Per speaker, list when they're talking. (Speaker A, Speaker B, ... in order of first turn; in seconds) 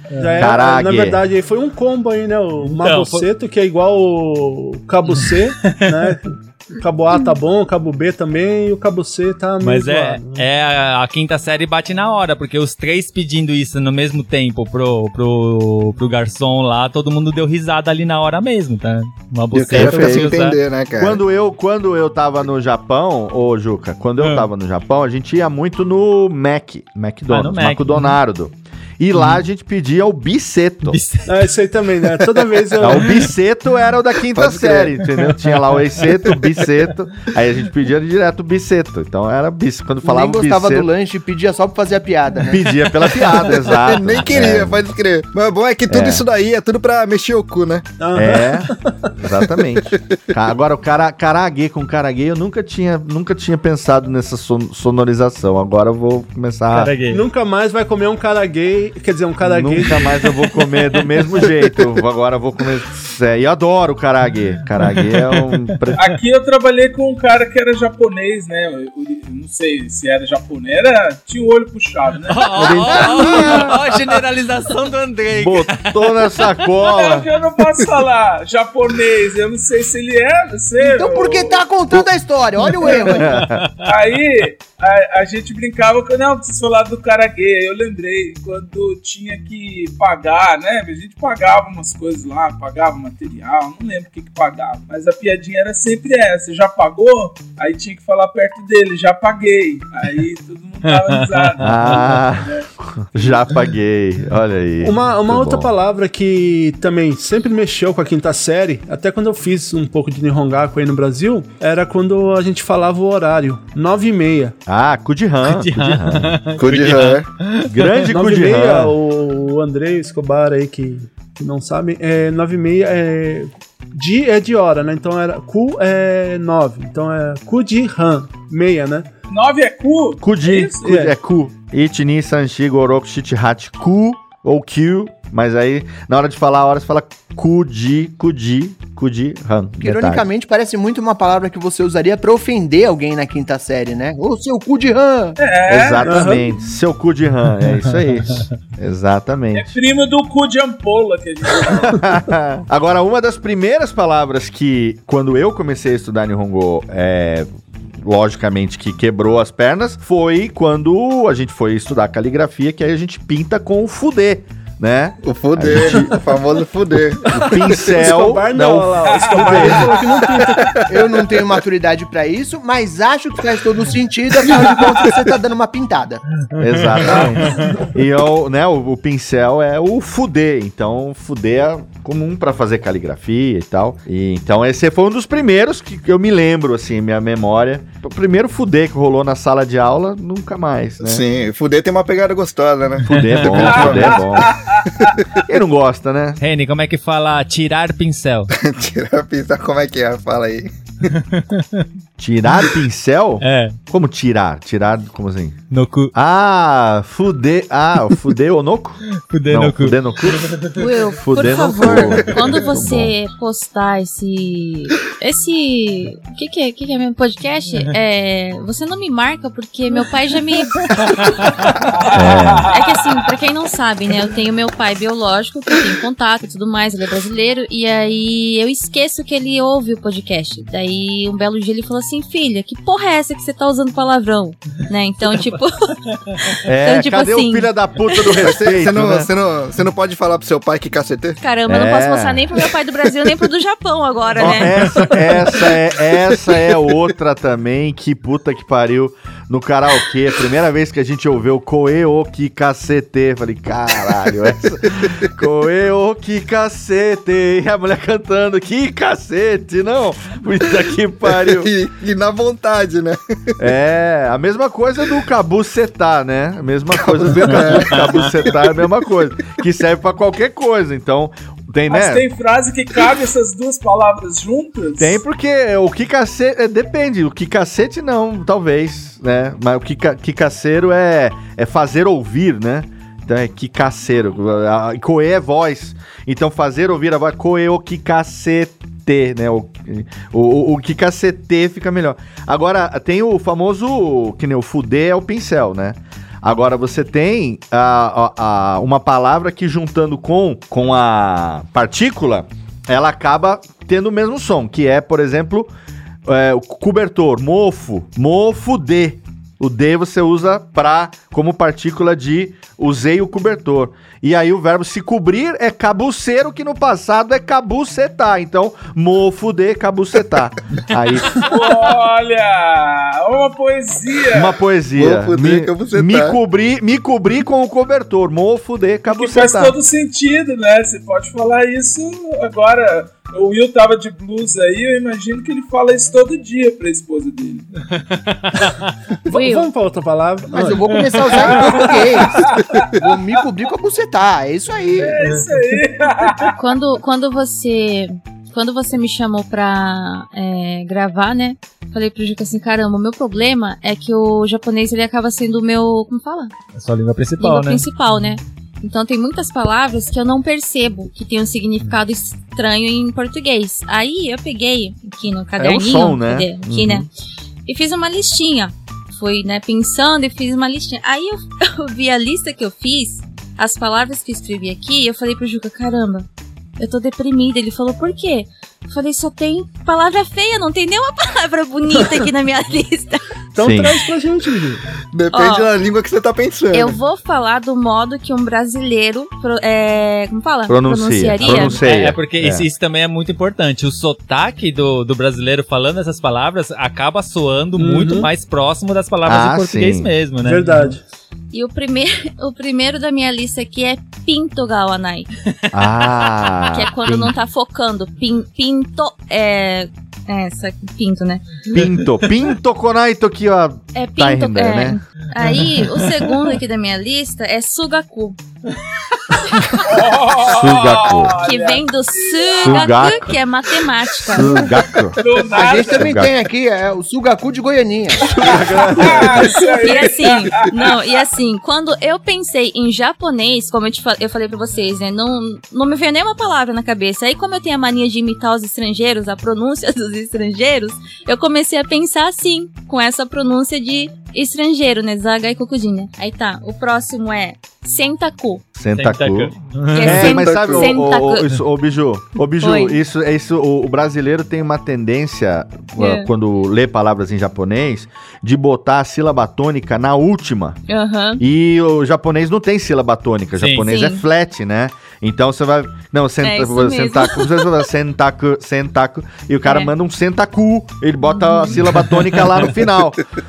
Speaker A: 0.1-0.5, 2.6-3.3, 5.6-6.2, 9.6-20.6, 24.2-24.5, 27.3-28.2, 30.9-31.3, 56.7-57.2, 64.8-66.1, 72.3-76.1, 83.3-83.7, 100.9-101.8, 115.4-118.0, 176.7-177.7, 193.1-193.5, 196.4-198.5, 201.1-201.9, 203.4-203.8, 205.7-206.1, 209.3-210.7, 338.0-338.9, 340.9-341.3, 356.8-358.3, 391.4-400.9, 406.0-406.3, 411.8-412.1, 415.4-416.5, 449.0-450.2, 463.6-463.9, 471.8-472.6
Speaker B: 0.2-10.4, 31.3-33.2, 48.0-49.1, 57.1-60.2, 104.8-114.5, 118.1-129.1, 130.8-131.1, 146.0-146.4, 167.4-170.8, 339.3-340.8, 341.5-341.9, 383.5-384.8, 397.8-398.3, 400.4-401.0
Speaker C: 0.4-1.2, 19.7-20.4, 21.0-31.0, 32.8-40.9, 42.5-44.8, 45.9-46.2, 48.1-56.9, 59.4-66.0, 72.6-73.8, 75.3-77.3, 82.9-83.7, 101.6-105.7, 114.7-116.4, 117.6-119.0, 130.2-140.2, 145.7-149.7, 151.9-166.2, 167.3-169.9, 176.6-191.2, 193.1-194.5, 195.4-196.4, 202.2-205.6, 206.1-213.1, 222.1-222.7, 236.6-239.3, 241.7-242.5, 244.4-261.7, 263.6-272.2, 275.0-305.7, 306.3-321.8, 324.3-329.8, 365.6-367.1, 383.6-384.0, 390.7-392.6, 399.3-400.1, 405.7-407.3, 411.7-415.0, 420.4-421.4, 422.6-423.4, 424.3-426.3, 428.2-429.6, 448.8-460.8, 461.4-473.2
Speaker D: 19.5-21.2, 34.4-34.9, 43.5-47.9, 116.6-117.3, 165.2-167.8, 170.6-171.1, 191.0-194.4, 198.6-200.7, 238.4-241.4, 261.3-263.2, 267.0-268.6, 325.0-326.4, 385.1-387.0, 450.1-451.0
Speaker E: 40.0-42.7, 80.8-83.4, 139.8-145.4, 170.9-176.2, 340.5-342.5, 343.0-345.3, 425.5-428.3
Speaker F: 66.0-72.8, 76.8-81.6, 83.8-102.6, 129.3-131.0, 145.4-146.4, 149.5-152.1, 169.1-170.0, 193.6-194.9, 221.9-222.9, 271.9-275.2, 321.4-324.6, 329.1-337.7, 341.4-343.1, 345.0-346.6, 419.9-422.9, 425.2-426.1, 428.3-431.0
Speaker G: 210.7-221.2, 222.6-235.9, 236.8-238.4, 241.4-245.1, 339.3-339.7, 346.5-356.5, 357.4-367.1, 367.7-383.2, 385.3-385.7, 386.7-391.8, 401.5-405.3, 406.7-411.6, 413.9-418.4, 419.5-419.8, 421.3-424.7, 429.6-448.6, 449.9-451.5, 452.6-453.0, 456.0-456.3, 460.9-461.4, 463.8-464.2, 466.4-467.8, 469.6-469.9, 471.2-471.8